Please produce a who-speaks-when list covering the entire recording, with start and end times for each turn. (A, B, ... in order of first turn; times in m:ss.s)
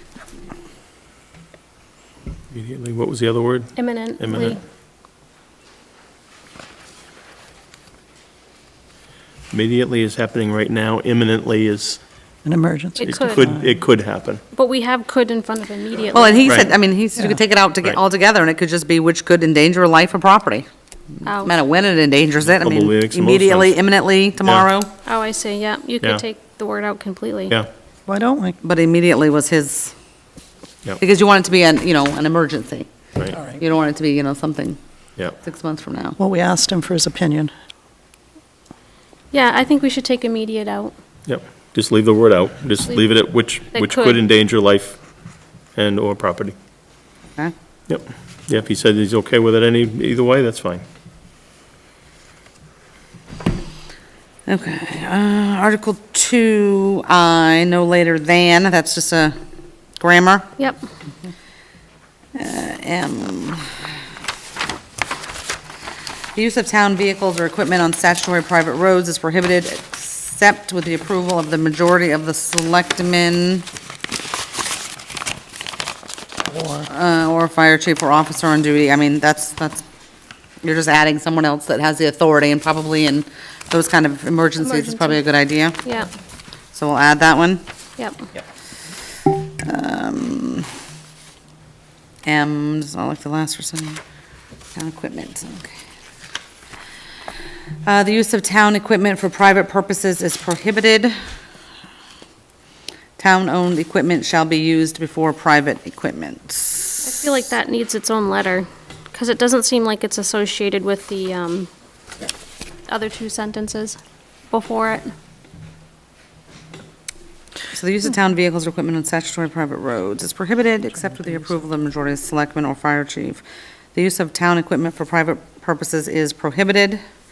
0:02.5-0:04.6 A
0:03.8-0:04.6 B
0:09.5-0:12.0 A
0:12.4-0:13.6 C
0:13.0-0:13.4 B
0:13.0-0:14.4 A
0:14.5-0:16.6 B
0:16.1-0:20.7 D
0:16.4-0:16.7 A
0:21.2-0:21.5 B
0:21.4-0:24.9 D
0:22.4-0:23.7 A
0:25.0-0:27.6 B
0:28.1-0:28.6 C
0:28.6-0:29.9 D
0:31.0-0:32.9 D
0:33.4-0:34.8 D
0:35.4-0:36.2 D
0:36.2-0:37.5 C
0:39.3-0:40.9 B
0:41.3-0:45.0 A
0:43.7-0:44.2 B
0:45.8-0:46.6 A
0:47.9-0:50.8 A
0:54.5-0:59.4 D
1:00.0-1:00.5 D
1:02.4-1:03.7 D
1:06.4-1:13.7 D
1:16.5-1:16.9 C
1:16.9-1:19.8 D
1:20.6-1:25.8 D
1:24.6-1:25.2 B
1:25.8-1:26.1 B
1:26.7-1:27.6 D
1:28.0-1:28.3 B
1:29.6-1:30.7 D
1:32.2-1:34.0 D
1:34.8-1:35.7 D
1:37.9-1:41.2 D
1:43.2-1:47.1 D
1:47.0-1:51.7 B
1:52.9-1:54.0 B
1:54.5-1:55.1 B
1:57.7-2:03.4 D
2:03.9-2:07.0 D